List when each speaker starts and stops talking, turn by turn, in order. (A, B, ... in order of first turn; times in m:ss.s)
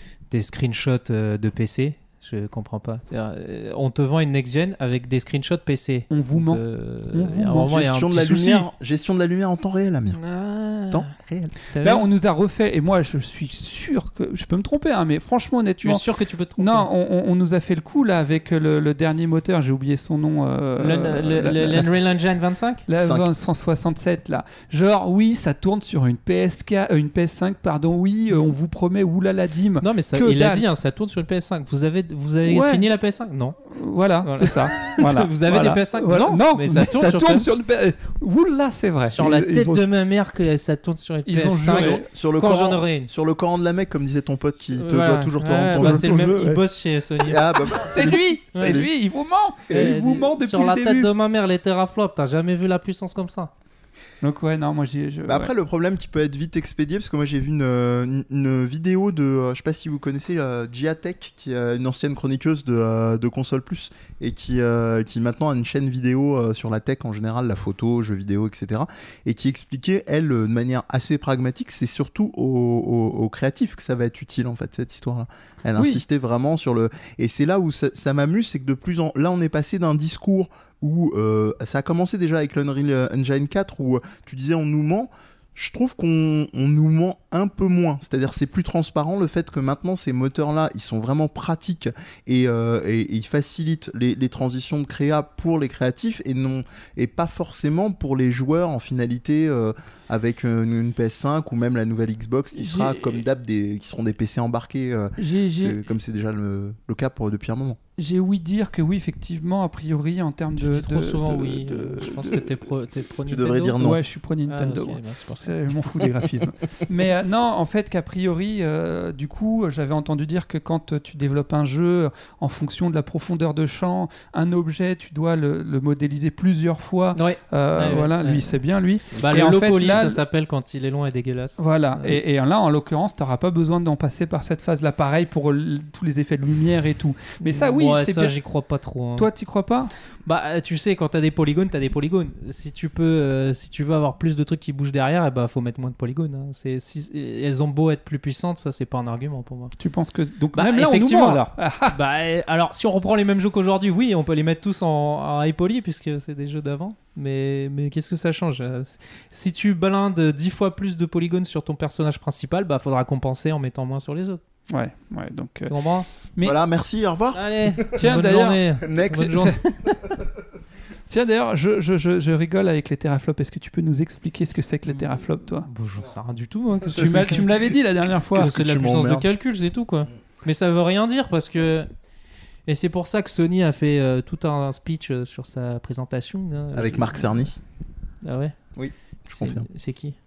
0:00.3-0:08.7 A
0:06.1-0:06.6 B
0:07.1-0:07.8 B
0:07.6-0:10.2 C
0:10.2-0:11.1 A
0:10.9-0:11.5 C
0:11.7-0:12.1 A
0:11.8-0:16.0 B
0:15.8-0:16.9 A
0:16.6-0:21.9 B
0:20.8-0:22.8 A
0:22.9-0:30.6 B
0:23.0-0:23.3 C
0:29.8-0:33.6 A
0:32.4-0:32.8 B
0:33.7-0:39.8 B
0:34.2-0:37.5 A
0:39.1-0:43.1 A
0:41.3-0:42.0 B
0:41.6-0:46.2 C
0:44.8-0:47.5 A
0:45.8-0:46.6 B
0:47.2-0:48.9 C
0:47.8-0:51.1 B
0:48.5-0:48.8 A
0:49.7-0:53.5 A
0:54.2-0:55.5 B
0:55.3-1:47.8 C
1:42.6-1:43.2 B
1:45.2-1:45.8 B
1:48.0-1:52.5 B
1:50.6-1:53.8 A
1:53.3-1:54.0 C
1:53.8-2:10.2 B
1:54.5-1:55.5 A
2:07.2-2:08.6 A
2:09.2-2:12.2 A
2:11.6-2:18.3 B
2:17.5-2:19.3 A
2:19.2-2:19.9 B
2:20.3-2:29.7 A
2:29.8-2:32.0 B
2:30.6-2:44.4 A
2:44.7-2:45.7 B
2:45.7-2:46.1 A
2:46.4-2:48.1 C
2:47.4-2:49.9 A
2:48.0-2:48.6 B
2:48.8-2:49.5 C
2:49.3-2:49.6 B
2:51.1-2:55.7 B
2:55.6-2:57.5 A
2:56.9-2:57.5 C
2:56.9-2:58.5 B
2:58.3-2:59.3 C
2:58.3-3:01.9 A
3:02.7-3:07.5 A
3:06.7-3:07.6 C
3:08.2-3:08.6 A
3:08.8-3:09.7 C
3:09.3-3:10.2 A